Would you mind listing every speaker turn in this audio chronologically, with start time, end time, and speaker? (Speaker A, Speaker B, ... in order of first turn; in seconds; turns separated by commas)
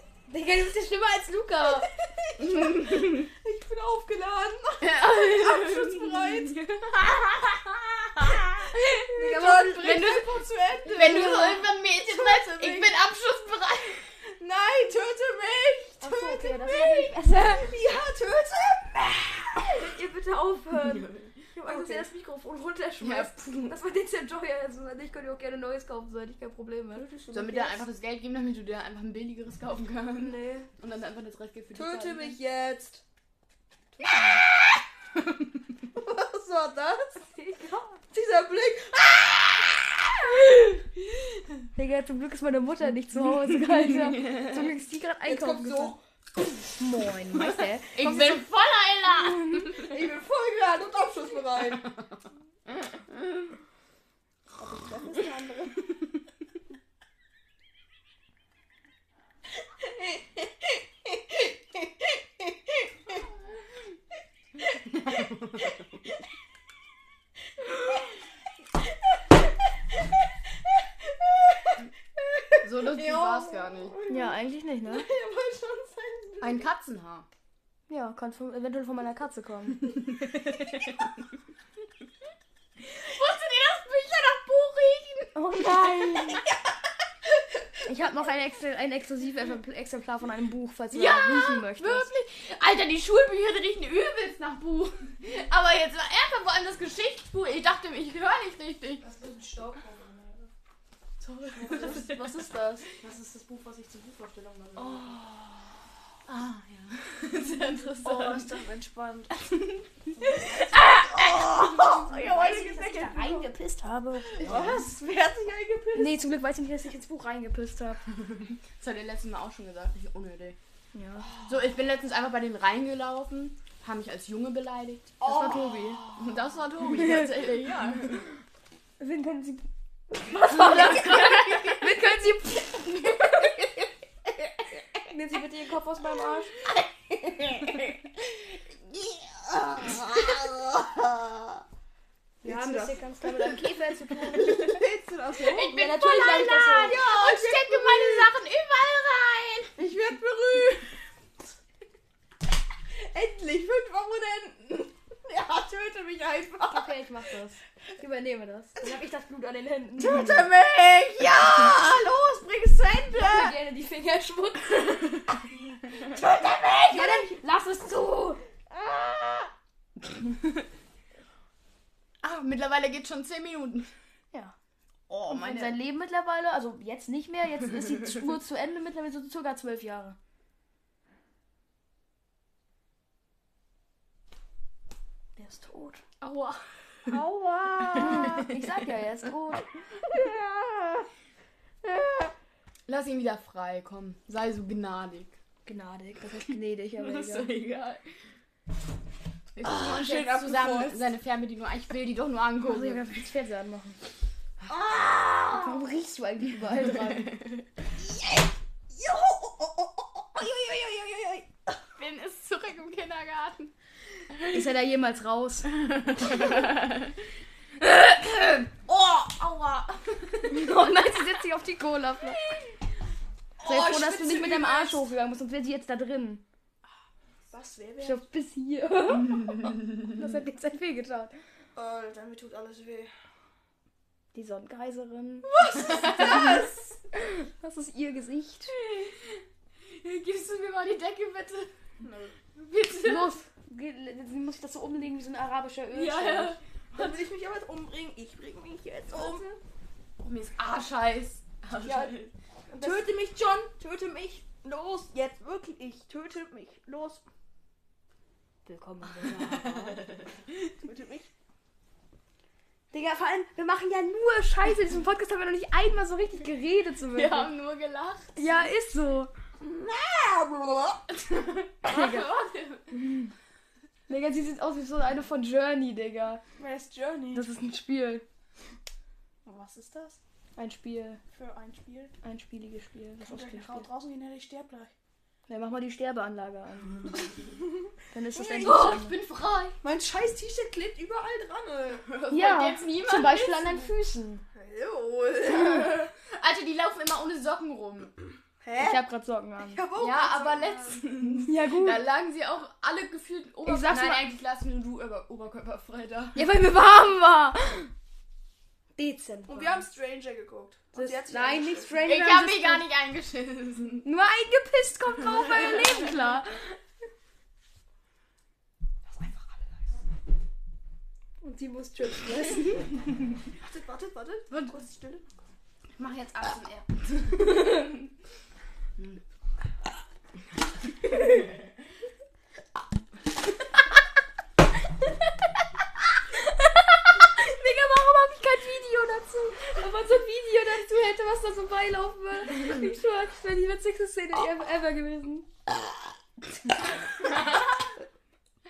Speaker A: 0.3-1.9, Speaker B: 1.6-6.8, Speaker C: 2.4-3.3, Speaker C: 4.8-9.1, Speaker A: 9.1-10.2, Speaker B: 9.1-12.9, Speaker C: 9.8-14.0, Speaker A: 10.9-11.6, Speaker B: 14.2-19.8, Speaker A: 16.0-17.7, Speaker A: 19.7-27.1, Speaker C: 20.8-21.3, Speaker B: 21.6-22.1, Speaker C: 23.0-23.8, Speaker B: 26.9-27.9, Speaker C: 27.3-32.4, Speaker A: 30.2-30.6, Speaker B: 31.7-33.0, Speaker A: 34.0-34.4, Speaker B: 35.9-37.2, Speaker A: 37.2-38.0, Speaker B: 38.1-40.8, Speaker A: 41.8-45.9, Speaker B: 45.2-46.0, Speaker A: 46.8-48.5, Speaker C: 47.9-49.9, Speaker A: 49.2-49.8, Speaker B: 49.8-52.0, Speaker B: 54.5-55.9, Speaker B: 59.8-60.2, Speaker B: 61.0-62.8, Speaker C: 65.0-65.6, Speaker B: 71.0-76.7, Speaker C: 72.6-74.0, Speaker A: 74.1-75.1, Speaker C: 76.4-77.3, Speaker A: 77.9-80.0, Speaker C: 80.4-80.9, Speaker C: 82.9-85.4, Speaker A: 85.3-86.5, Speaker A: 87.8-92.1, Speaker C: 90.9-99.0, Speaker B: 99.0-100.5, Speaker C: 101.2-105.2, Speaker B: 101.6-102.9, Speaker A: 101.7-102.2, Speaker B: 104.8-105.5, Speaker C: 106.3-108.5, Speaker B: 108.0-109.3, Speaker C: 109.3-111.9, Speaker B: 110.3-113.5, Speaker A: 111.8-114.7, Speaker B: 114.3-116.2, Speaker C: 114.4-114.8, Speaker A: 115.9-118.0, Speaker C: 118.8-120.5, Speaker A: 120.9-121.3, Speaker C: 121.4-125.1, Speaker B: 125.2-126.6, Speaker A: 125.2-126.0, Speaker C: 126.1-128.2, Speaker A: 126.9-127.3, Speaker A: 129.0-133.2, Speaker C: 130.4-131.9, Speaker B: 130.6-130.9, Speaker A: 135.1-136.5, Speaker B: 139.6-141.0, Speaker B: 142.4-143.5, Speaker A: 142.4-144.8, Speaker B: 144.2-146.2, Speaker C: 145.4-149.7, Speaker A: 145.7-147.0, Speaker B: 146.8-148.3, Speaker B: 149.8-150.9, Speaker B: 152.9-156.9, Speaker A: 156.7-160.3, Speaker B: 160.0-163.6, Speaker A: 163.1-165.4, Speaker B: 166.0-167.3, Speaker A: 166.9-168.4, Speaker B: 168.7-169.5, Speaker C: 172.2-173.9, Speaker C: 175.1-175.8, Speaker A: 175.2-180.2, Speaker A: 185.4-186.0, Speaker C: 186.2-186.6, Speaker B: 187.1-188.4, Speaker A: 187.7-189.7, Speaker B: 190.1-191.1, Speaker B: 191.8-192.3, Speaker C: 192.9-195.3, Speaker A: 195.7-197.5, Speaker C: 197.0-198.0, Speaker C: 199.6-203.1, Speaker B: 199.6-201.0, Speaker A: 202.6-204.0, Speaker B: 204.7-205.8, Speaker A: 205.5-207.4, Speaker C: 206.9-207.6, Speaker B: 208.1-211.7, Speaker C: 212.0-213.7, Speaker A: 214.5-216.4, Speaker C: 216.1-217.1, Speaker C: 217.8-220.7, Speaker A: 220.5-222.5, Speaker B: 223.6-224.9, Speaker A: 223.6-226.4, Speaker C: 223.7-224.6, Speaker B: 227.5-228.2, Speaker A: 228.0-231.3, Speaker B: 231.7-233.1, Speaker A: 234.3-236.6, Speaker B: 235.4-237.0, Speaker A: 237.1-238.7, Speaker C: 238.7-241.7, Speaker B: 242.0-242.4, Speaker C: 242.5-243.3, Speaker A: 243.0-246.6, Speaker C: 245.9-247.2, Speaker B: 246.9-249.6, Speaker C: 250.2-252.3, Speaker B: 251.8-252.1, Speaker B: 252.7-257.2, Speaker A: 252.7-253.1, Speaker A: 258.6-260.1, Speaker C: 259.6-260.2, Speaker B: 260.8-261.3, Speaker A: 262.9-267.5, Speaker C: 267.1-268.4, Speaker A: 268.3-269.3, Speaker B: 269.6-271.1, Speaker C: 271.1-272.9, Speaker A: 271.8-272.3, Speaker A: 272.9-273.3, Speaker A: 274.1-276.4, Speaker B: 276.6-277.5, Speaker A: 277.3-278.2, Speaker B: 279.4-280.2, Speaker A: 280.6-281.2, Speaker B: 281.3-282.1, Speaker A: 282.2-283.9, Speaker B: 283.2-284.9, Speaker A: 285.5-287.1, Speaker A: 288.1-289.1, Speaker B: 288.3-288.9, Speaker C: 288.6-289.8, Speaker B: 289.8-292.1, Speaker C: 292.0-293.9, Speaker A: 292.3-294.4, Speaker B: 294.5-296.1, Speaker C: 295.6-298.1, Speaker B: 298.6-299.0, Speaker A: 298.8-299.8, Speaker B: 299.6-301.4, Speaker C: 300.0-306.4, Speaker A: 301.4-302.1, Speaker A: 303.6-304.2, Speaker A: 306.4-307.9, Speaker A: 309.0-309.8, Speaker B: 309.5-312.0, Speaker A: 310.9-312.9, Speaker C: 312.0-314.0, Speaker A: 314.0-316.6, Speaker B: 319.1-319.6, Speaker A: 321.4-323.0, Speaker B: 323.6-325.3, Speaker C: 325.9-327.8, Speaker A: 336.8-345.5, Speaker C: 347.1-347.9